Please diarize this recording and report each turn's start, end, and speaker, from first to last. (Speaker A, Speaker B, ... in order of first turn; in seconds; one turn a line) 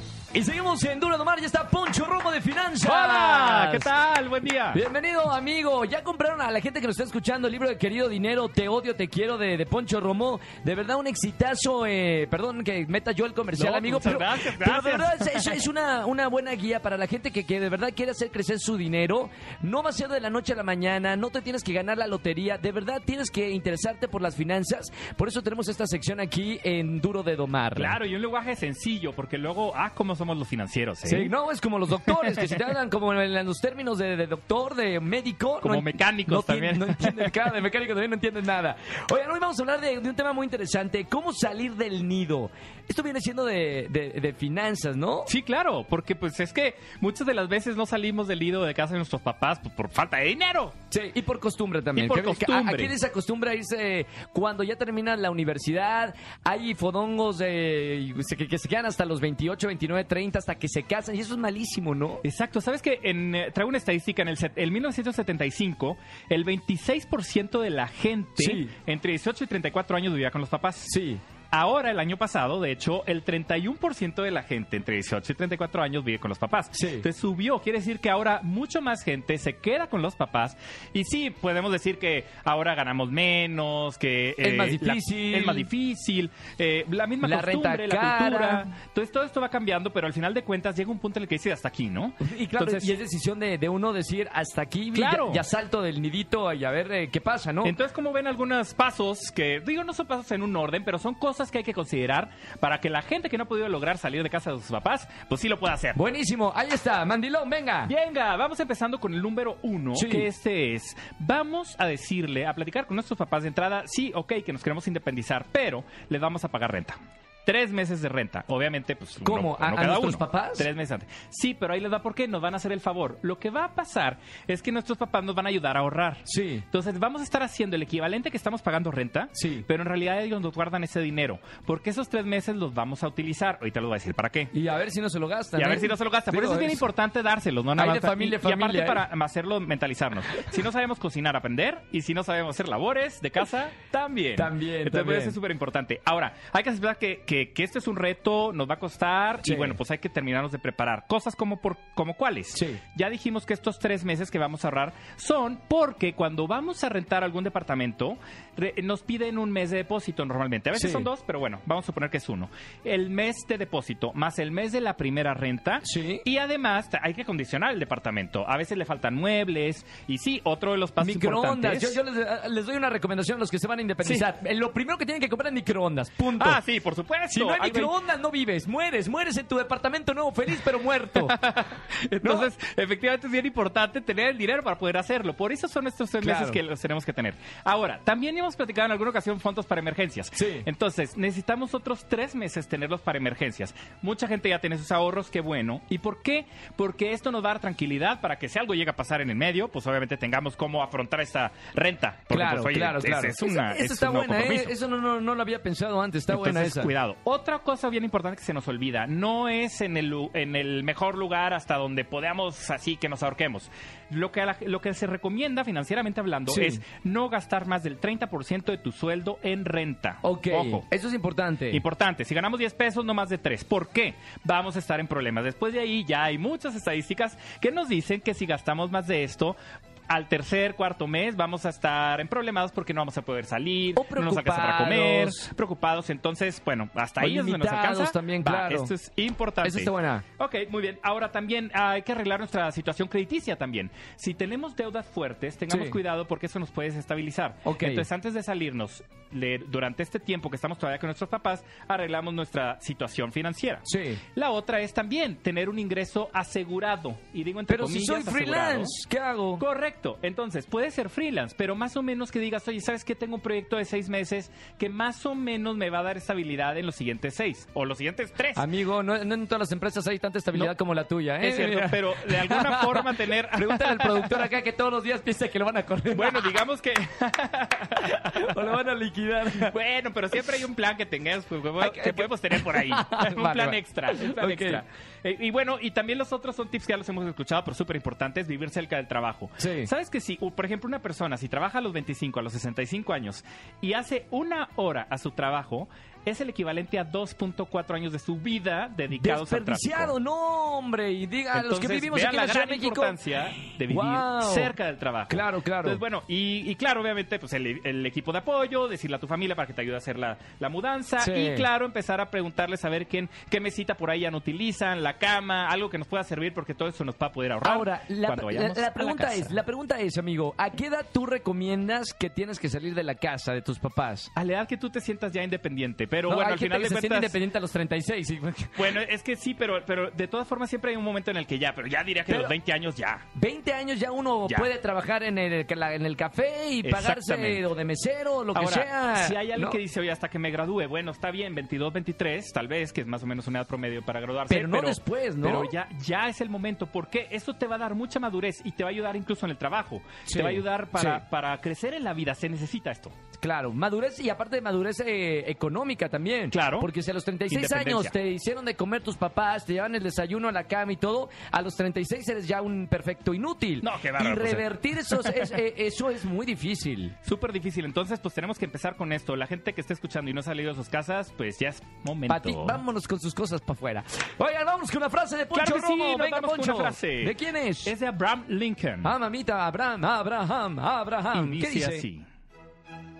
Speaker A: 0.3-3.9
Speaker B: 2.8-4.8
Speaker A: 4.7-27.9
Speaker B: 13.6-15.6
Speaker B: 27.8-31.3
Speaker A: 31.0-45.3
Speaker B: 35.6-37.3
Speaker B: 45.3-50.7
Speaker A: 50.9-62.2
Speaker B: 51.9-52.9
Speaker B: 62.2-70.9
Speaker A: 68.4-68.7
Speaker A: 70.9-71.2
Speaker B: 71.5-92.9
Speaker A: 76.7-77.0
Speaker A: 84.4-85.7
Speaker A: 87.2-88.7
Speaker A: 92.2-97.8
Speaker B: 94.9-95.4
Speaker B: 97.6-106.0
Speaker A: 105.9-107.9
Speaker B: 107.9-134.5
Speaker A: 109.9-110.3
Speaker A: 119.2-120.7
Speaker A: 126.2-126.6
Speaker A: 129.3-129.7
Speaker A: 134.5-136.8
Speaker B: 135.6-172.0
Speaker A: 137.8-139.0
Speaker A: 144.3-145.4
Speaker A: 149.4-149.8
Speaker A: 152.5-152.8
Speaker A: 160.7-161.1
Speaker A: 165.8-166.2
Speaker A: 171.0-176.6
Speaker B: 176.4-177.9
Speaker A: 177.3-181.3
Speaker B: 181.1-204.7
Speaker A: 182.2-182.5
Speaker A: 186.2-186.6
Speaker A: 190.3-190.7
Speaker A: 202.3-206.9
Speaker B: 206.3-220.8
Speaker A: 216.5-216.8
Speaker A: 220.2-221.8
Speaker B: 221.7-229.6
Speaker B: 230.1-253.8
Speaker A: 233.9-235.4
Speaker A: 237.2-238.9
Speaker A: 239.6-240.2
Speaker A: 245.7-246.0
Speaker A: 247.6-248.1
Speaker A: 253.8-254.2
Speaker B: 254.3-258.9
Speaker A: 257.7-259.6
Speaker B: 259.6-268.6
Speaker A: 268.5-276.6
Speaker B: 271.4-274.5
Speaker B: 276.1-278.8
Speaker A: 278.3-279.7
Speaker B: 279.6-300.1
Speaker A: 281.8-284.8
Speaker A: 289.6-289.9
Speaker A: 299.1-304.7
Speaker B: 301.5-319.6
Speaker A: 305.3-306.0
Speaker A: 311.2-311.7
Speaker A: 317.6-324.3
Speaker B: 324.3-327.4
Speaker A: 326.2-329.0
Speaker B: 328.8-333.2
Speaker A: 332.3-332.5
Speaker A: 333.3-339.8
Speaker B: 336.8-337.6
Speaker B: 338.5-353.1
Speaker A: 344.5-345.7
Speaker A: 350.3-351.2
Speaker A: 353.4-367.1
Speaker B: 356.5-356.9
Speaker B: 357.5-358.1
Speaker B: 363.8-365.5
Speaker B: 367.2-372.8
Speaker A: 372.3-377.9
Speaker B: 375.5-379.1
Speaker A: 379.0-382.1
Speaker B: 381.3-382.2